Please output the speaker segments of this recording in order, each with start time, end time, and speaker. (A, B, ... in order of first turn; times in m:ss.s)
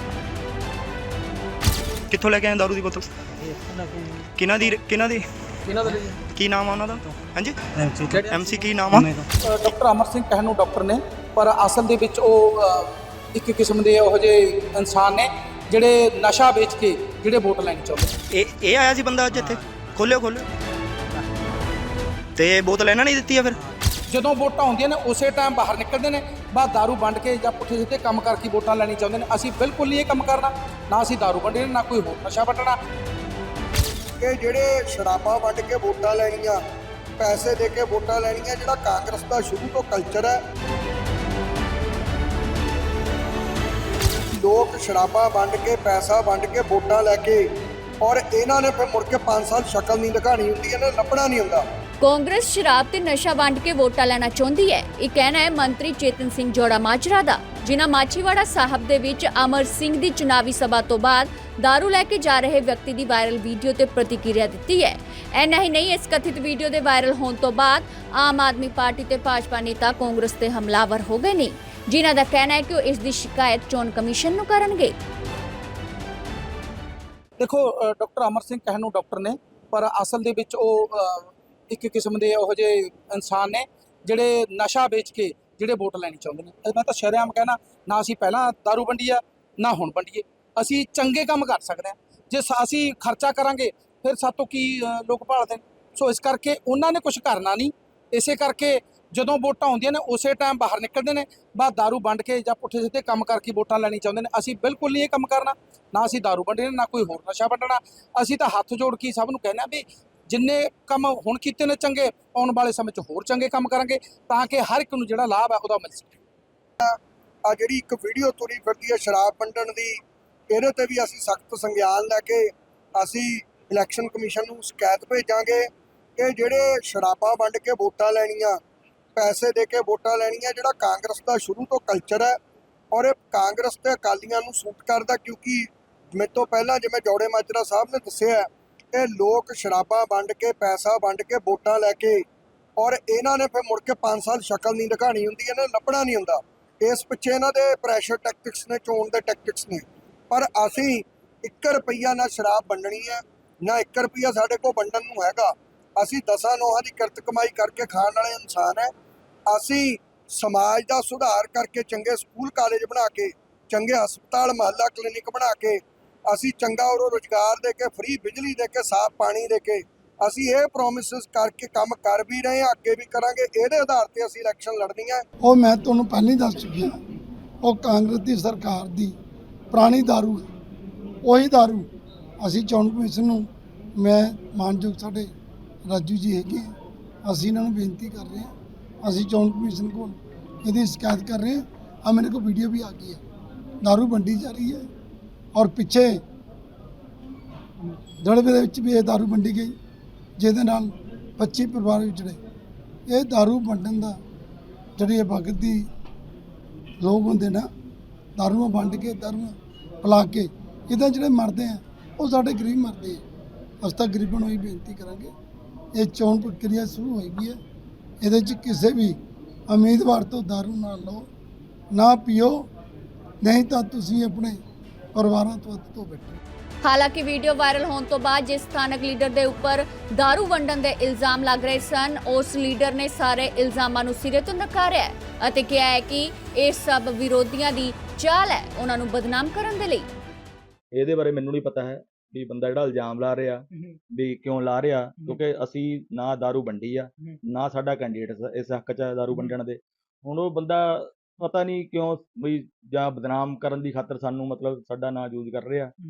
0:02.1-0:03.1 A
0:04.4-0:05.2 A
0:05.7-0:06.1 B
0:06.3-0:09.2 A
0:08.1-0:18.1 B
0:18.3-0:20.4 A
0:22.4-0:23.6 A
0:24.1-0:32.8 B
0:34.2-0:36.6 C
0:37.2-0:40.4 C
0:44.4-0:47.4 C
0:48.0-0:51.6 C
0:52.0-1:14.9 D
1:17.4-1:56.2 B
1:56.8-2:00.0 C
2:00.5-2:05.7 C
2:06.2-2:08.6 C
2:09.2-2:12.3 C
2:12.9-2:22.2 C
2:22.8-2:38.9 C
2:39.5-2:55.2 C
2:55.4-2:57.0 E
2:57.6-2:59.1 E
2:59.7-3:00.4 E
3:01.2-3:01.9 E
3:02.4-3:03.5 E
3:04.0-3:05.3 E
3:05.8-3:06.7 E
3:07.2-3:13.2 E
3:13.8-3:14.9 E
3:15.5-3:16.2 E
3:18.2-3:19.7 E
3:20.4-3:22.4 E
3:23.1-3:24.2 E
3:25.0-3:25.8 E
3:27.0-3:27.7 E
3:28.4-3:33.2 E
3:33.8-3:35.3 E
3:35.9-3:37.6 E
3:38.2-3:39.2 E
3:39.7-3:41.3 E
3:41.9-3:42.7 E
3:43.4-3:44.6 E
3:45.1-3:46.4 E
3:46.8-4:00.1 D
4:00.9-4:15.9 F